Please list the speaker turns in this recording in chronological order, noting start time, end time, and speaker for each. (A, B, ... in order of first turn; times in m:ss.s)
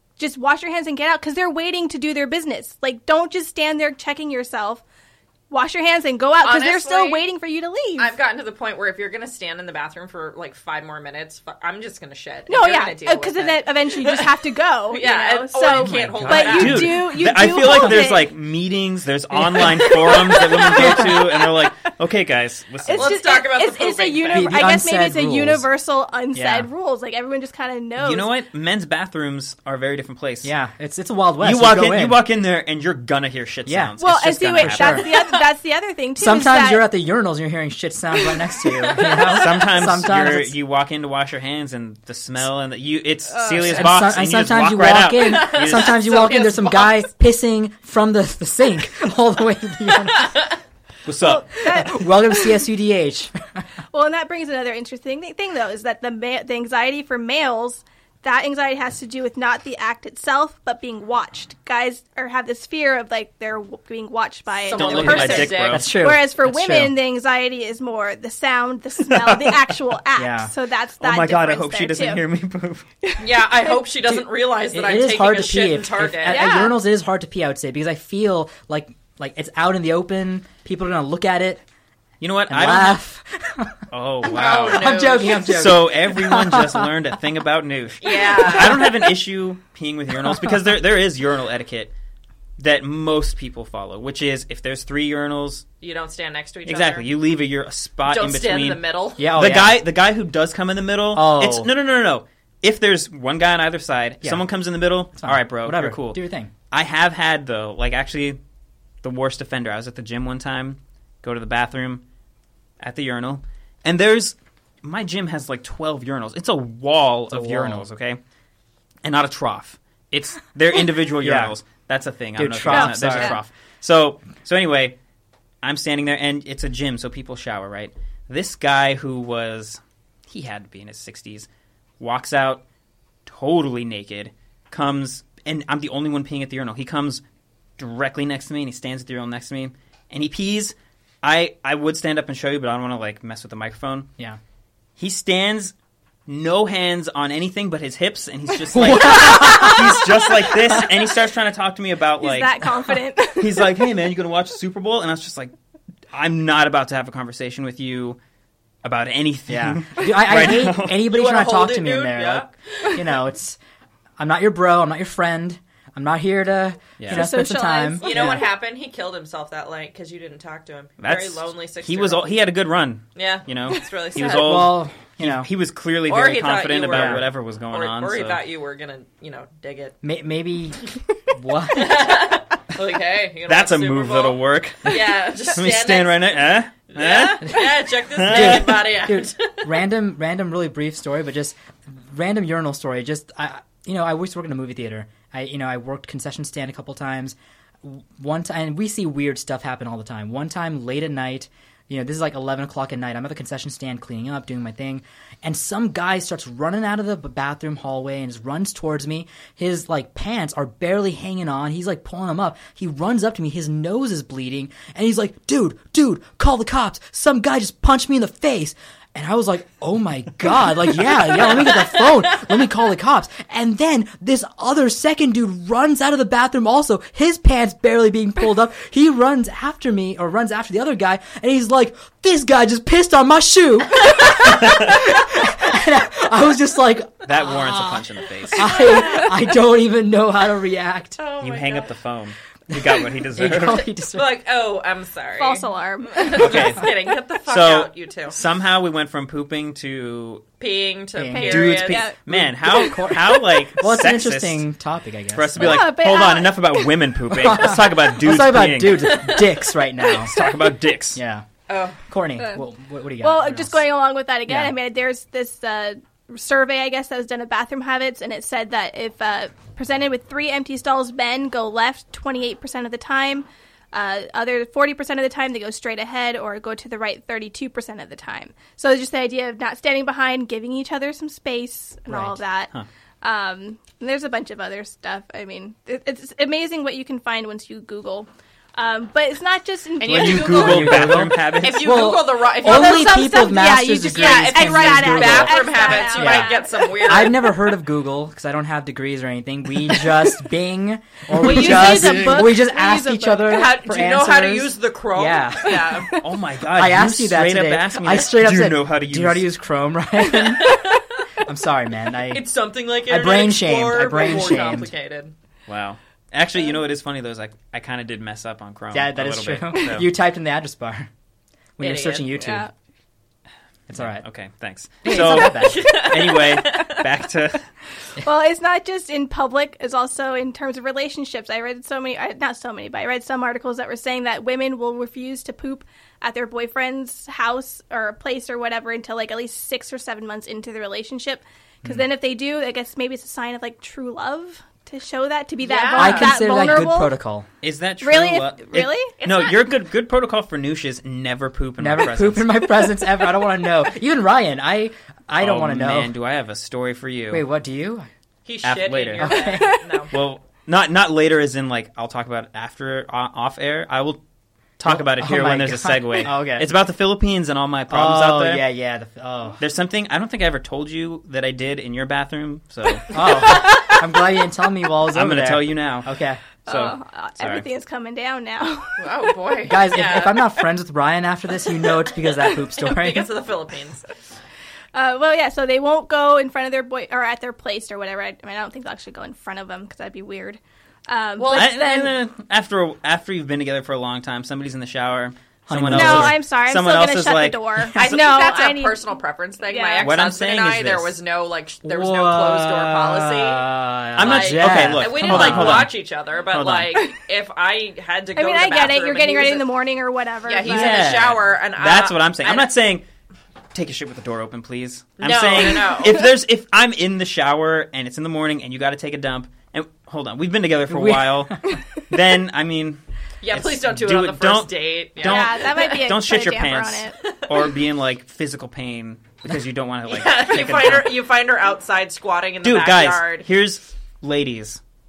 0:00.2-0:04.8 A
0:05.5-0:08.1 A
0:06.4-0:07.2 B
0:08.0-0:17.0 B
0:12.5-0:18.3 A
0:15.8-0:23.2 C
0:16.0-0:16.5 D
0:20.1-0:21.4 A
0:20.1-0:20.9 B
0:20.7-0:21.2 D
0:22.9-0:28.3 A
0:23.0-0:24.6 B
0:24.3-0:25.7 D
0:26.3-0:26.7 D
0:28.0-0:30.5 C
0:30.4-0:32.2 D
0:31.4-0:35.1 C
0:33.7-0:33.9 D
0:34.0-0:36.8 A
0:34.5-0:35.1 D
0:35.1-0:35.4 B
0:36.2-0:40.5 D
0:38.7-0:39.3 B
0:39.3-0:46.0 C
0:43.4-0:43.8 A
0:43.5-0:50.4 D
0:45.2-0:47.1 B
0:51.1-0:51.7 C
0:51.2-0:52.6 A
0:51.6-0:53.3 D
0:53.9-1:12.2 A
1:04.6-1:05.9 B
1:04.7-1:05.9 C
1:05.2-1:06.9 D
1:10.2-1:10.5 D
1:11.0-1:12.9 C
1:13.0-1:13.7 A
1:13.2-1:16.5 B
1:14.1-1:21.6 D
1:16.3-1:16.8 A
1:22.2-1:23.0 C
1:22.5-1:23.8 D
1:23.9-1:31.9 C
1:24.2-1:25.6 B
1:24.6-1:26.9 D
1:28.0-1:29.0 B
1:32.6-1:35.7 C
1:35.8-1:37.1 B
1:36.7-1:48.4 C
1:38.0-1:39.3 B
1:39.2-1:39.8 D
1:41.1-1:41.7 D
1:45.2-1:46.5 D
1:49.0-1:52.0 C
1:52.8-1:58.2 C
1:57.3-1:57.8 D
1:59.0-2:05.0 C
2:01.2-2:01.5 D
2:02.4-2:03.4 D
2:02.7-2:03.4 A
2:05.6-2:11.5 C
2:12.0-2:12.6 C
2:13.3-2:17.2 C
2:17.8-2:24.1 C
2:25.0-2:25.7 C
2:26.3-2:32.6 C
2:28.7-2:30.1 D
2:29.3-2:29.8 A
2:32.2-2:33.8 A
2:33.4-2:35.5 C
2:36.1-2:38.2 C
2:38.8-2:41.0 C
2:39.5-2:43.6 D
2:40.9-2:43.0 B
2:44.2-2:48.5 D
2:47.0-2:47.3 C
2:47.1-2:48.4 A
2:48.0-2:52.4 B
2:51.0-2:58.4 C
2:53.2-2:54.7 B
2:54.4-2:55.5 D
2:56.1-3:00.0 B
2:56.9-2:57.3 D
3:00.0-3:02.3 D
3:01.7-3:06.4 B
3:03.5-3:08.8 C
3:06.9-3:09.7 B
3:08.2-4:01.2 D
3:41.3-3:42.4 B
3:54.4-3:55.0 C
3:57.3-3:58.8 C
3:58.7-3:59.3 B
4:01.2-4:01.9 B
4:01.4-4:03.9 C
4:02.7-4:04.4 D
4:04.1-4:08.4 B
4:05.4-4:06.7 A
4:06.3-4:10.5 C
4:10.6-4:12.1 B
4:11.2-4:11.6 D
4:11.3-4:13.0 A
4:11.5-4:14.6 C
4:12.3-4:15.9 D
4:15.3-4:19.3 C
4:15.6-4:16.9 A
4:17.3-4:20.4 D
4:19.0-4:19.7 B
4:20.1-4:21.2 C
4:21.2-4:21.5 D
4:21.7-4:22.0 B
4:22.1-4:23.8 D
4:23.2-4:42.7 A
4:24.5-4:24.8 D
4:42.1-4:42.4 D
4:43.2-4:51.0 A
4:50.0-4:53.3 B
4:50.1-4:52.0 C
4:50.1-5:06.0 D
4:52.6-4:57.3 A
4:54.1-4:57.5 B
5:01.3-5:02.6 C
5:01.4-5:03.6 A
5:03.4-5:06.1 B
5:05.6-5:06.2 A
5:06.2-5:09.5 C
5:06.7-5:10.8 D
5:10.3-5:11.2 B
5:11.4-5:12.5 D
5:12.3-5:15.3 B
5:13.1-5:14.9 D
5:15.7-5:20.1 C
5:18.9-5:21.1 D
5:21.8-5:22.7 D
5:21.8-5:22.6 B
5:22.4-5:22.7 A
5:23.9-5:24.2 D
5:24.0-5:27.7 C
5:25.0-5:25.8 D
5:25.1-5:27.0 B
5:28.2-5:47.1 A
5:45.6-5:46.4 B
5:46.0-5:47.5 D
5:47.6-5:52.6 C
5:48.0-5:49.2 A
5:49.2-5:49.6 B
5:51.8-5:56.1 D
5:55.4-5:57.4 C
5:57.3-5:58.1 D
5:58.5-6:00.1 B
5:58.6-5:59.5 C
5:59.2-5:59.8 D
5:59.4-6:00.0 A
6:00.1-6:04.2 C
6:04.8-6:08.6 C
6:04.9-6:06.7 D
6:07.9-6:09.6 D
6:09.6-6:13.1 C
6:13.1-6:16.4 D
6:15.1-6:16.1 C
6:16.6-6:17.7 C
6:16.7-6:19.3 A
6:19.0-6:20.6 B
6:19.6-6:23.3 D
6:22.4-6:24.1 B
6:24.9-6:32.2 A
6:31.4-6:31.7 B
6:31.5-6:37.6 C
6:35.7-6:36.4 D
6:35.9-6:40.1 A
6:38.0-6:49.7 B
6:40.0-6:41.1 C
6:41.8-6:45.9 D
6:44.2-6:47.0 C
6:48.4-6:51.2 A
6:50.4-6:52.7 B
6:50.6-6:53.0 C
6:53.7-7:11.1 C
6:55.2-6:56.3 B
7:00.9-7:01.6 D
7:03.4-7:05.9 B
7:05.2-7:07.2 A
7:10.1-7:13.5 B
7:12.6-7:14.8 C